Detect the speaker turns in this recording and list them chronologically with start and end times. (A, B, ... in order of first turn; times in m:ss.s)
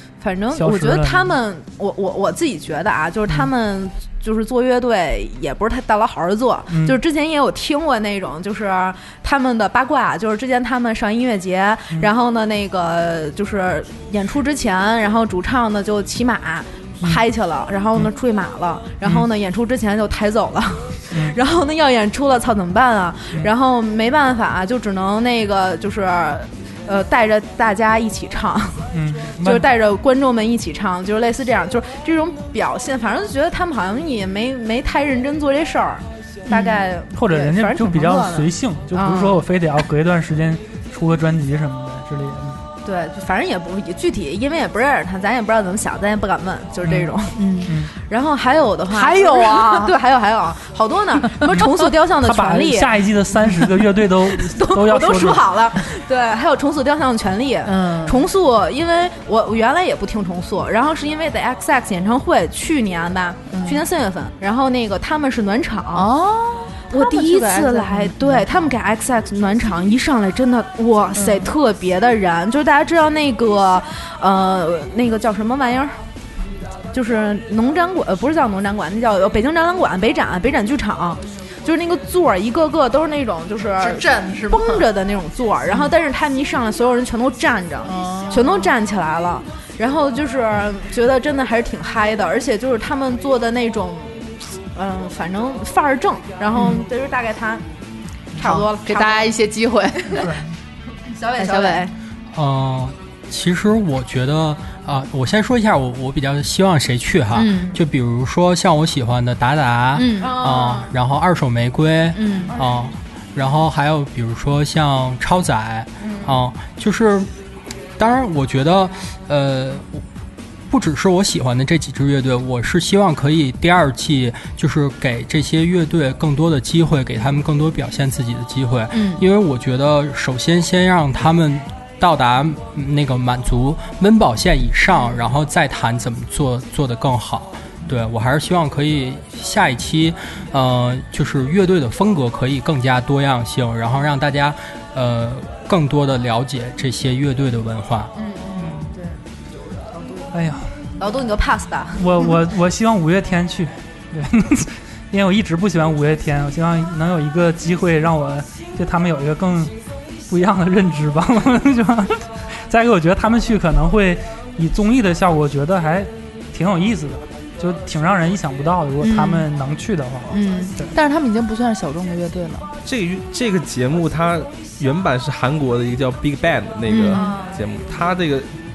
0:00.2-0:39.4 A
0:00.6-0:01.3 B
0:06.7-0:07.0 B
0:21.1-0:21.4 B
0:28.9-0:29.6 B
0:36.5-0:36.8 C
0:37.1-0:42.6 B
0:42.8-0:47.4 A
0:46.8-0:47.1 B
0:47.3-0:47.8 C
0:47.6-0:47.9 B
0:48.0-0:52.9 A
0:48.9-0:50.0 C
0:51.4-0:51.7 C
0:52.2-0:55.8 B
0:53.5-1:06.1 A
0:57.6-0:58.3 C
1:03.5-1:03.8 C
1:05.9-1:08.7 C
1:06.9-1:16.0 A
1:11.1-1:11.5 C
1:16.9-1:37.6 A
1:23.8-1:24.8 C
1:27.8-1:28.7 C
1:36.5-1:36.8 C
1:38.4-1:39.3 A
1:38.4-1:40.4 C
1:40.2-1:40.5 B
1:41.0-1:41.9 A
1:41.4-1:41.9 C
1:42.3-1:57.3 D
1:47.3-1:47.8 C
1:49.9-1:50.3 C
1:50.2-1:50.9 A
1:52.1-1:52.6 C
1:52.5-1:52.8 A
1:56.0-1:56.4 A
1:58.0-2:00.0 D
2:00.7-2:28.1 D
2:08.9-2:09.2 C
2:14.9-2:15.2 C
2:28.2-2:30.3 A
2:30.3-2:30.8 B
2:31.0-2:32.1 A
2:32.0-2:39.7 B
2:40.3-2:50.9 B
2:49.0-2:49.5 C
2:50.3-2:52.7 C
2:52.8-2:58.5 E
2:56.8-2:57.3 C
2:57.1-2:57.6 A